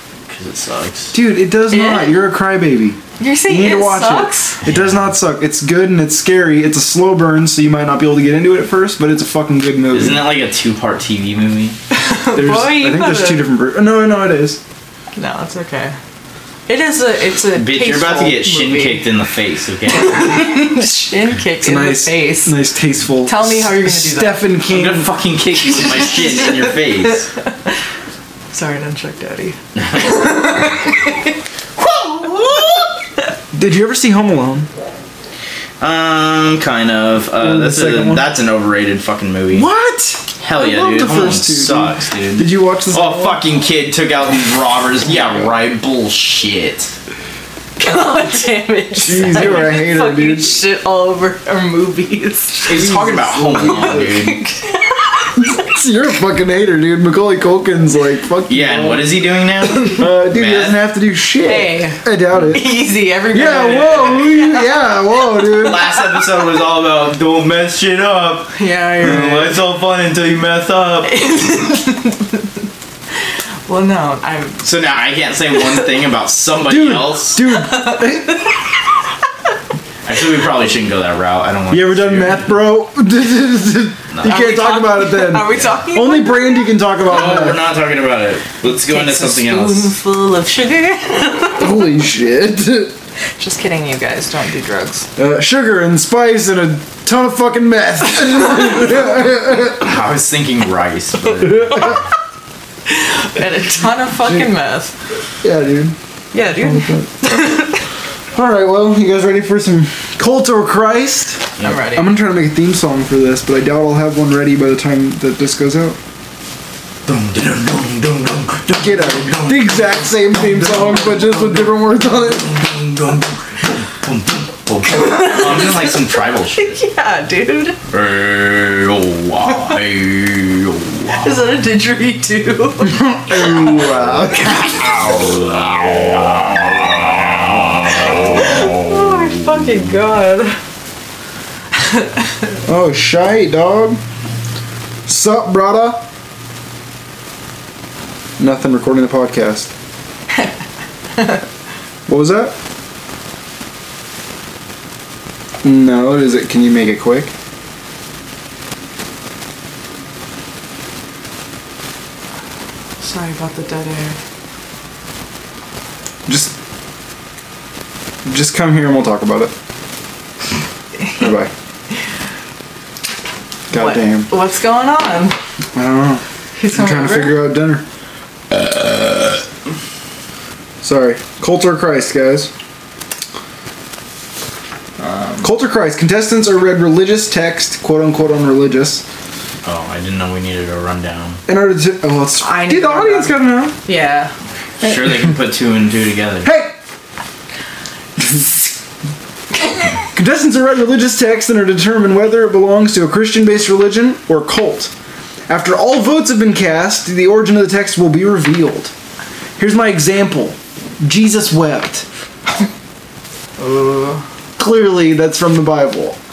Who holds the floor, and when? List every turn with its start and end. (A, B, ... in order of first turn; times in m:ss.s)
0:00.3-0:01.1 A
0:01.1-0:10.3 B
0:01.7-0:02.2 C
0:03.2-0:04.6 C
0:04.6-0:05.1 A
0:09.9-0:11.8 A
0:11.9-0:13.4 C
0:12.3-0:14.6 B
0:15.2-0:16.0 C
0:16.7-0:19.1 C
0:17.5-0:20.4 A
0:19.9-0:22.6 C
0:21.6-0:25.1 B
0:23.2-0:24.5 C
0:24.7-0:27.3 A
0:25.6-0:27.7 C
0:28.5-0:31.3 C
0:29.8-0:30.5 A
0:32.1-0:32.9 C
0:33.5-0:34.7 B
0:35.8-0:39.7 A
0:37.4-0:38.3 B
0:39.5-0:43.4 B
0:40.4-0:46.9 A
0:47.8-0:53.0 C
0:49.0-0:50.5 B
0:52.6-0:54.4 A
0:52.7-0:54.2 B
0:53.5-0:55.6 C
0:55.4-0:59.1 B
0:58.5-1:00.8 A
0:59.9-1:02.6 B
1:01.4-1:06.2 C
1:03.3-1:05.8 B
1:05.6-1:11.1 A
1:08.6-1:09.6 C
1:11.0-1:12.5 C
1:13.7-1:14.6 C
1:14.6-1:17.4 A
1:15.6-1:15.8 C
1:16.6-1:18.4 B
1:17.5-1:18.6 C
1:20.0-1:22.5 A
1:21.7-1:27.6 B
1:24.1-1:24.4 A
1:24.2-1:26.8 C
1:27.0-1:29.9 A
1:28.8-1:31.8 C
1:31.6-1:32.9 B
1:33.4-1:35.1 C
1:35.2-1:39.9 B
1:39.6-1:42.0 A
1:42.9-1:44.9 C
1:45.4-1:46.0 B
1:46.3-1:47.8 C
1:46.6-1:47.4 B
1:48.3-1:56.0 B
1:51.6-1:52.1 C
1:57.1-2:01.8 A
1:58.7-2:02.6 B
2:02.3-2:06.8 A
2:04.9-2:06.0 C
2:06.6-2:07.8 C
2:07.9-2:11.3 A
2:11.1-2:13.9 C
2:12.9-2:15.1 B
2:14.4-2:18.9 A
2:18.1-2:20.6 C
2:21.8-2:22.2 C
2:22.6-2:24.0 B
2:25.1-2:26.1 B
2:28.4-2:29.7 B
2:32.1-2:32.6 B
2:35.6-2:37.3 B
2:43.0-2:44.2 C
2:46.3-2:46.5 B
2:48.2-2:49.5 B
2:51.1-2:51.5 B
2:53.7-2:54.3 B
2:53.7-2:55.4 C
2:55.8-2:57.8 B
2:56.6-2:57.5 C
2:58.5-2:59.4 A
3:00.8-3:02.5 B
3:05.0-3:05.5 C
3:05.4-3:09.0 B
3:09.6-3:11.4 A
3:11.5-3:13.8 B
3:12.4-3:14.3 C
3:14.8-3:16.5 A
3:16.4-3:16.8 B
3:20.1-3:24.9 B
3:25.5-3:28.9 B
3:29.6-3:32.1 B
3:33.6-3:34.2 C
3:34.6-3:36.2 B